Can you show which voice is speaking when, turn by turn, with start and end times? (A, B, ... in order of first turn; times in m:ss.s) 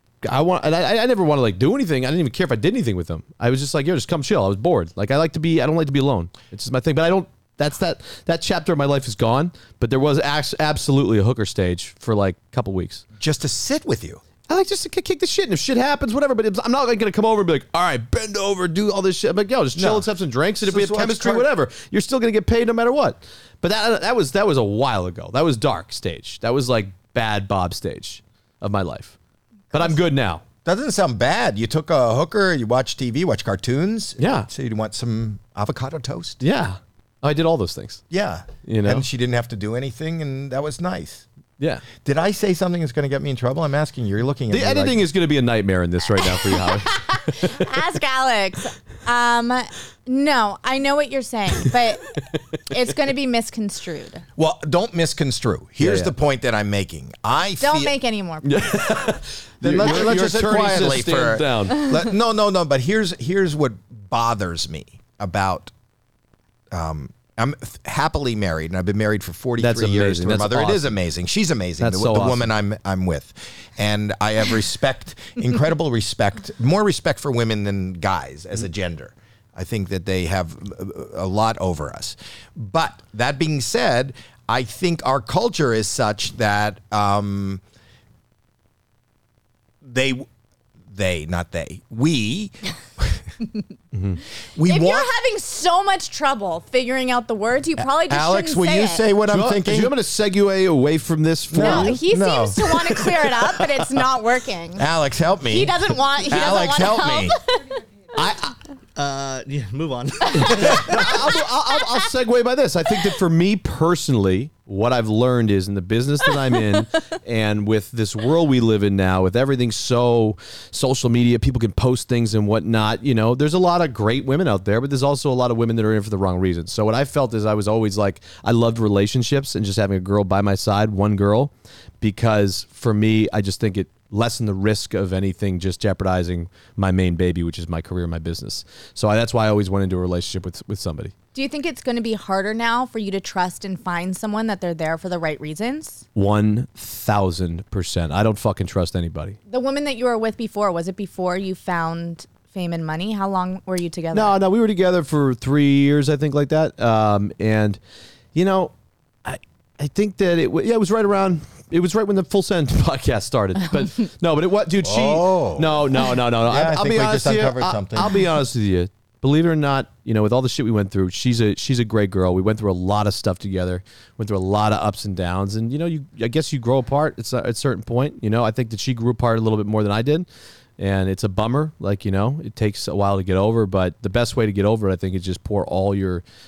0:00.2-0:13.0 A
0:13.2-0:14.2 B
0:14.5-0:29.2 A
0:19.7-0:20.1 B
0:20.6-0:21.5 B
0:29.7-0:30.4 A
0:30.6-0:36.4 B
0:34.2-0:34.5 A
0:36.4-0:38.0 A
0:38.1-0:41.2 B
0:38.6-0:39.0 A
0:41.6-0:41.8 A
0:42.0-0:45.1 B
0:44.5-0:46.9 A
0:46.2-0:54.2 C
0:54.4-0:57.9 B
0:55.8-0:56.1 A
0:57.6-0:58.8 C
0:58.4-1:01.8 A
0:59.6-1:05.7 B
1:06.7-1:27.6 B
1:09.6-1:11.0 A
1:11.8-1:12.5 A
1:29.8-1:30.3 B
1:30.9-1:33.2 B
1:33.9-1:34.2 A
1:34.5-1:35.1 B
1:34.6-1:39.0 C
1:37.8-1:39.9 B
1:39.3-1:42.0 A
1:41.5-1:43.8 B
1:41.6-1:44.9 C
1:44.8-1:47.4 B
1:45.5-1:47.6 C
1:48.1-1:48.5 A
1:49.0-1:51.1 D
1:50.6-2:21.1 A
2:21.3-2:26.0 C
2:26.1-2:29.4 A
2:29.5-2:34.4 C
2:34.1-2:37.8 A
2:38.3-2:38.7 A
2:39.2-3:00.3 A
2:44.8-2:48.2 B
3:00.8-3:06.2 A